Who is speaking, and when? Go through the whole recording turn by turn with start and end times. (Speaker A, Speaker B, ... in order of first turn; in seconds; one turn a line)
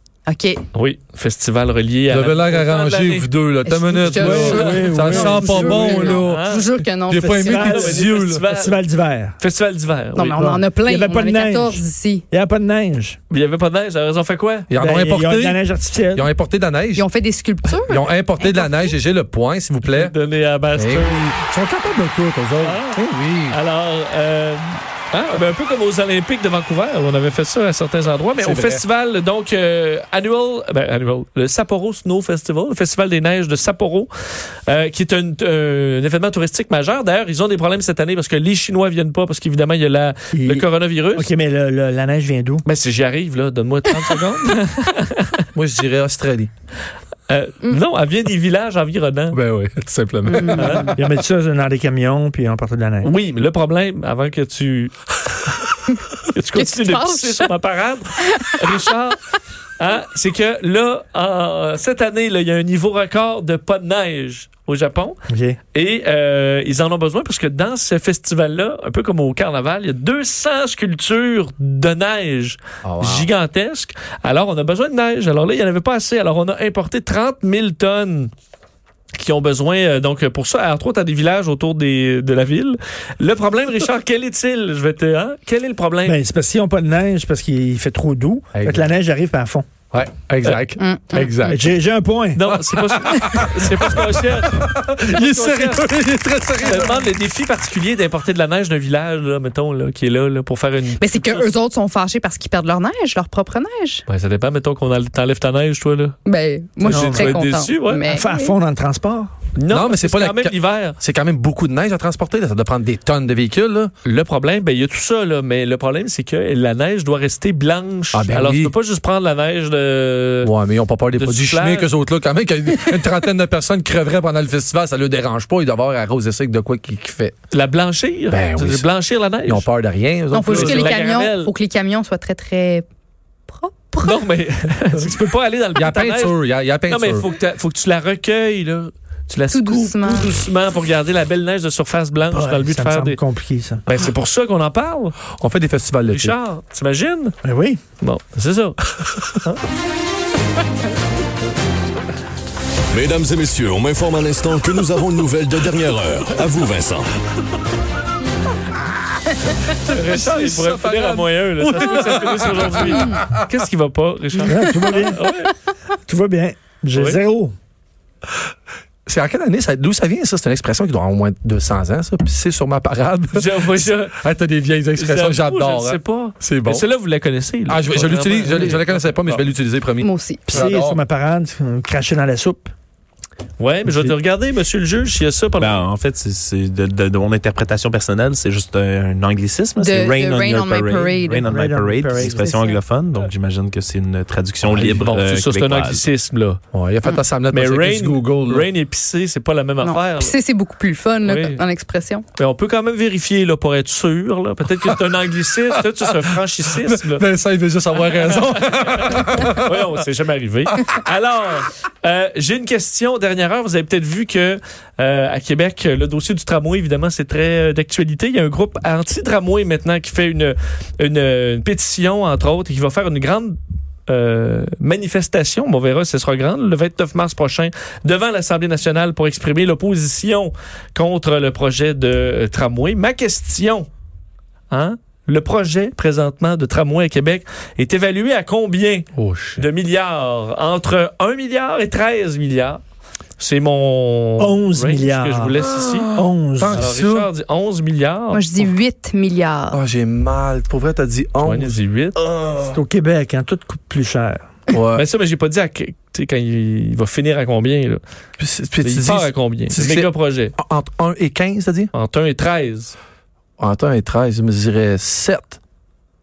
Speaker A: 0.3-0.7
Speaker B: 0.7-3.3
Speaker C: 2.1-6.5
Speaker A: 3.6-7.6
Speaker D: 4.1-5.9
Speaker B: 4.3-5.4
Speaker B: 5.9-6.7
Speaker C: 7.1-8.5
Speaker D: 7.5-9.4
Speaker B: 7.5-8.8
Speaker B: 9.4-10.4
Speaker A: 10.2-12.3
Speaker D: 10.2-13.2
Speaker B: 13.3-14.7
Speaker C: 14.7-15.6
Speaker D: 14.8-16.3
Speaker C: 16.1-17.1
Speaker A: 16.9-18.9
Speaker C: 17.9-20.1
Speaker B: 19.9-21.3
Speaker C: 20.8-23.6
Speaker B: 22.6-34.1
Speaker C: 28.4-28.9
Speaker B: 34.7-41.3
Speaker D: 40.3-42.6
Speaker B: 42.6-45.5
Speaker C: 45.5-46.5
Speaker B: 47.3-49.4
Speaker C: 49.3-51.0
Speaker A: 50.3-50.6
Speaker B: 50.6-50.9
Speaker D: 50.6-53.1
Speaker B: 53.0-54.9
Speaker B: 56.2-59.2
Speaker A: 56.5-57.5
Speaker A: 58.2-58.7
Speaker B: 59.8-65.2
Speaker D: 65.3-65.6
Speaker B: 65.7-78.3
Speaker C: 72.8-73.3
Speaker B: 79.1-86.2
Speaker D: 86.0-89.7
Speaker C: 88.5-88.9
Speaker C: 89.9-91.7
Speaker A: 90.8-91.6
Speaker D: 91.5-92.4
Speaker B: 92.3-95.8
Speaker C: 92.7-97.0
Speaker B: 96.6-101.5
Speaker A: 101.0-104.0
Speaker B: 104.1-106.2
Speaker A: 106.2-108.6
Speaker B: 106.8-108.1
Speaker D: 106.8-107.4
Speaker D: 108.1-109.3
Speaker B: 109.5-111.0
Speaker C: 109.7-113.9
Speaker B: 114.0-120.5
Speaker C: 118.1-118.7
Speaker C: 120.4-127.3
Speaker B: 121.2-121.9
Speaker B: 127.5-129.7
Speaker C: 128.3-128.9
Speaker C: 129.4-130.9
Speaker A: 130.3-132.8
Speaker B: 130.5-131.5
Speaker A: 133.5-134.3
Speaker B: 134.0-143.2
Speaker C: 135.8-137.3
Speaker A: 139.5-140.3
Speaker D: 142.3-143.8
Speaker B: 143.8-145.2
Speaker C: 145.3-146.4
Speaker B: 146.1-147.3
Speaker D: 147.4-147.8
Speaker B: 148.0-149.6
Speaker E: 152.9-157.1
Speaker C: 159.7-163.4
Speaker B: 159.9-165.6
Speaker D: 164.4-165.2
Speaker D: 166.1-167.6
Speaker C: 169.1-176.9
Speaker B: 173.3-174.2
Speaker B: 175.0-179.4
Speaker C: 177.7-181.0
Speaker A: 180.0-180.6
Speaker D: 180.5-182.7
Speaker B: 183.6-185.8
Speaker D: 183.9-184.2
Speaker F: 185.6-196.0
Speaker A: 189.8-191.5
Speaker D: 191.4-192.4
Speaker A: 192.2-192.8
Speaker B: 194.7-196.6
Speaker C: 196.7-198.7
Speaker B: 197.5-200.4
Speaker A: 199.8-202.2
Speaker B: 201.2-201.6
Speaker B: 202.4-207.3
Speaker C: 205.8-206.1
Speaker C: 206.8-210.0
Speaker B: 208.0-233.9
Speaker B: 234.7-242.8
Speaker C: 239.2-239.6
Speaker B: 243.4-246.1
Speaker D: 244.4-245.6
Speaker C: 245.6-247.3
Speaker D: 246.1-246.8
Speaker B: 246.7-248.7
Speaker A: 248.3-249.8
Speaker C: 249.7-252.7
Speaker B: 251.4-252.2
Speaker D: 252.7-254.5
Speaker C: 254.7-255.0
Speaker B: 254.9-258.0
Speaker C: 258.4-261.9
Speaker B: 258.8-260.6
Speaker B: 261.9-262.9
Speaker C: 263.6-265.6